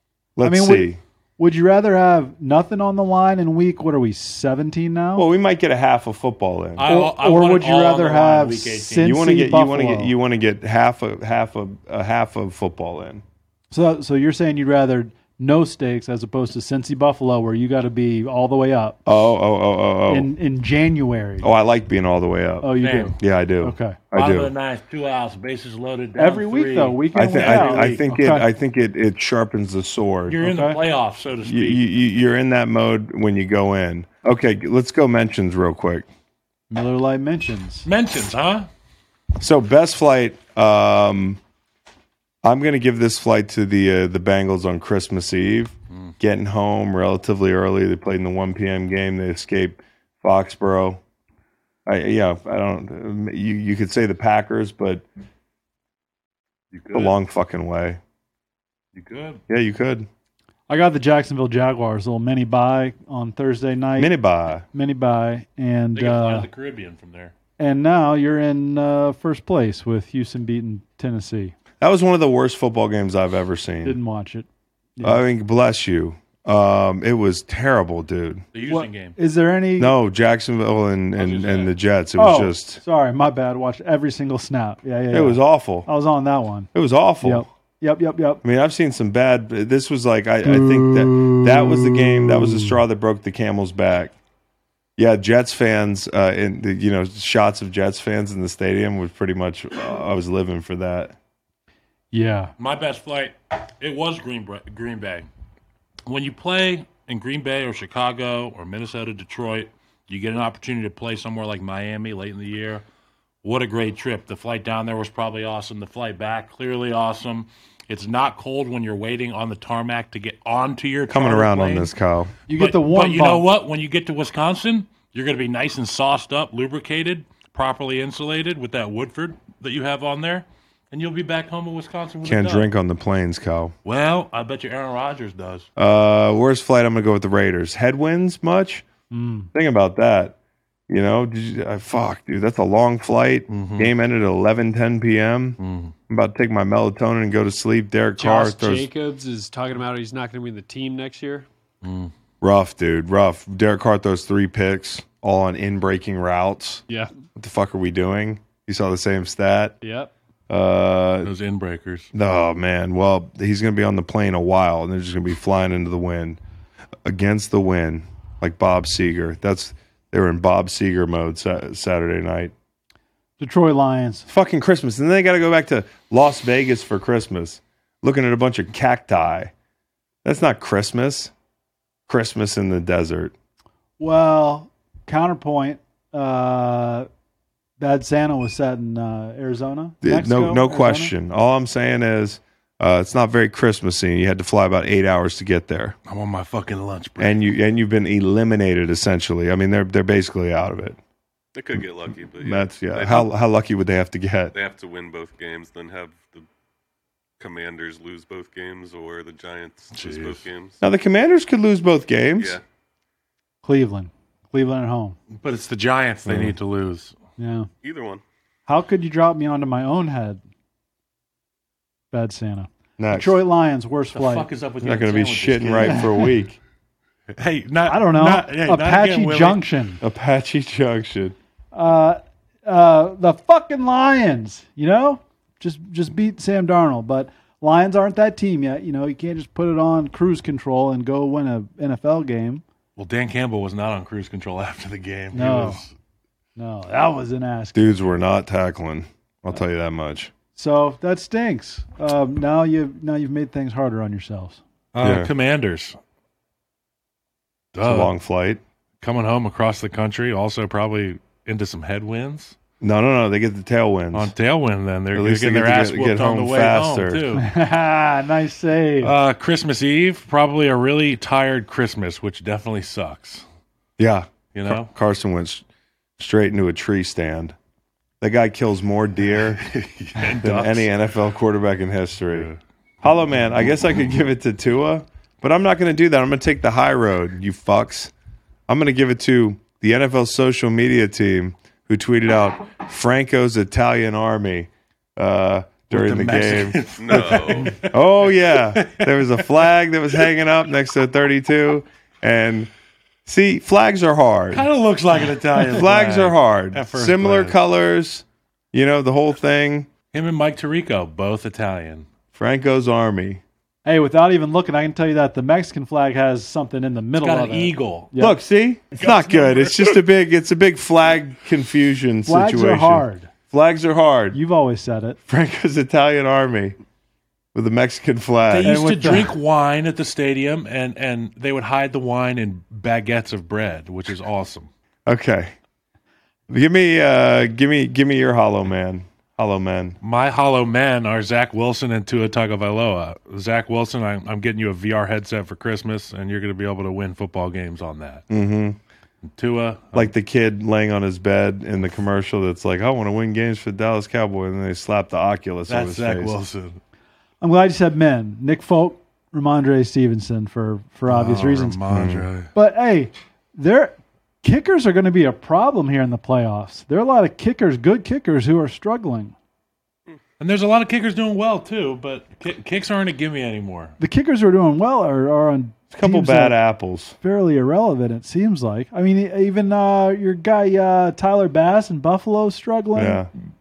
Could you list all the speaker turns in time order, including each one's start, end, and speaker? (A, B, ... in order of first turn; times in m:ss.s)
0:00.4-0:01.0 A
0:00.4-0:05.3 B
0:05.1-0:06.8 A
0:06.8-0:09.2 C
0:06.8-0:10.1 B
0:09.0-0:13.2 A
0:13.7-0:19.0 B
0:19.0-0:20.3 A
0:20.1-0:21.5 B
0:21.4-0:24.5 A
0:22.6-0:24.0 B
0:22.8-0:23.1 C
0:24.1-0:28.0 C
0:26.1-0:28.5 B
0:27.1-0:30.4 A
0:30.3-0:31.9 C
0:30.4-0:30.8 B
0:31.4-0:36.0 A
0:36.7-0:37.9 B
0:37.8-0:38.7 C
0:39.4-0:41.4 A
0:42.4-0:51.0 A
0:51.8-0:55.0 A
0:56.7-0:57.1 C
0:56.9-0:58.0 A
0:58.9-0:59.4 C
0:59.5-1:00.1 A
1:00.7-1:04.1 B
1:04.0-1:04.6 A
1:04.7-1:06.5 B
1:05.9-1:07.3 C
1:07.6-1:11.6 B
1:11.8-1:14.0 A
1:13.8-1:15.2 B
1:15.0-1:18.4 A
1:18.5-1:19.2 C
1:18.6-1:20.0 B
1:19.8-1:22.8 A
1:21.2-1:21.8 C
1:22.2-1:26.7 B
1:25.1-1:25.9 A
1:26.7-1:27.5 A
1:27.2-1:28.4 B
1:28.4-1:34.1 A
1:30.4-1:32.7 B
1:35.0-1:41.1 A
1:42.1-1:42.5 B
1:42.6-1:45.3 C
1:46.0-1:52.8 C
1:53.4-2:01.9 C
2:01.1-2:02.3 A
2:02.5-2:03.5 B
2:02.5-2:12.7 C
2:12.2-2:13.7 A
2:13.8-2:15.7 C
2:15.8-2:18.8 A
2:19.1-2:19.5 B
2:19.5-2:20.4 A
2:20.9-2:28.9 A
2:23.5-2:23.9 C
2:25.6-2:25.9 C
2:28.2-2:31.5 D
2:31.8-2:32.1 C
2:32.4-2:36.8 A
2:37.3-2:39.8 A
2:39.8-2:40.1 D
2:40.5-2:41.3 A
2:41.2-2:42.1 C
2:42.1-2:46.4 A
2:47.0-2:52.5 A
2:53.4-2:54.3 B
2:54.3-2:59.5 A
3:00.2-3:01.3 A
3:02.1-3:03.3 A
3:04.0-3:07.1 B
3:07.8-3:11.1 B
3:10.0-3:15.9 A
3:16.0-3:17.4 C
3:17.2-3:21.0 A
3:21.5-3:23.3 E
3:22.4-3:24.5 A
3:24.5-3:26.4 E
3:27.4-3:30.8 E
3:29.9-3:30.4 C
3:30.8-3:32.6 A
3:33.6-3:35.2 B
3:35.3-3:37.2 C
3:36.2-3:36.5 A
3:37.4-3:37.7 B
3:37.8-3:38.2 E
3:38.7-3:40.4 B
3:42.1-3:44.5 B
3:43.0-3:43.4 A
3:44.1-3:46.2 C
3:44.8-3:46.6 A
3:47.3-3:49.6 C
3:47.8-3:50.0 B
3:50.0-3:51.3 A
3:51.7-4:02.6 B
4:03.0-4:05.9 C
4:05.3-4:05.8 B
4:06.6-4:08.1 B
4:07.7-4:10.3 A
4:10.6-4:14.6 B
4:14.9-4:16.0 C
4:15.0-4:15.3 A
4:17.7-4:18.1 C
4:17.8-4:18.6 A
4:19.0-4:22.5 C
4:22.8-4:24.3 A
4:24.1-4:27.5 C
4:25.1-4:27.2 A
4:27.3-4:29.2 B
4:29.0-4:33.4 C
4:34.0-4:35.6 A
4:34.5-4:34.9 C
4:36.2-4:37.5 A
4:38.2-4:39.6 A
4:39.6-4:40.9 C
4:40.4-4:42.5 A
4:43.0-4:48.1 A
4:48.7-5:02.7 A
4:55.9-4:59.7 C
4:57.0-4:57.8 E
5:03.2-5:04.7 A
5:04.5-5:07.6 C
5:05.6-5:09.9 A
5:10.1-5:12.0 C
5:12.3-5:13.4 A
5:13.8-5:18.4 B
5:17.2-5:18.1 C
5:18.2-5:24.4 A
5:19.0-5:20.0 C
5:22.2-5:23.3 B
5:24.3-5:25.2 B
5:25.2-5:26.7 A
5:27.5-5:28.8 A
5:28.5-5:34.7 C
5:28.6-5:29.4 B
5:35.1-5:35.5 A
5:36.5-5:40.0 A
5:40.0-5:48.3 C
5:48.3-5:48.8 A
5:49.3-5:50.1 C
5:49.9-5:56.3 A
5:55.7-5:56.8 C
5:57.4-6:01.8 B
6:01.1-6:02.5 C
6:01.9-6:02.3 A
6:02.5-6:09.3 B
6:10.4-6:13.9 C
6:14.0-6:16.6 B
6:15.9-6:17.2 A
6:17.2-6:23.3 B
6:23.0-6:23.3 A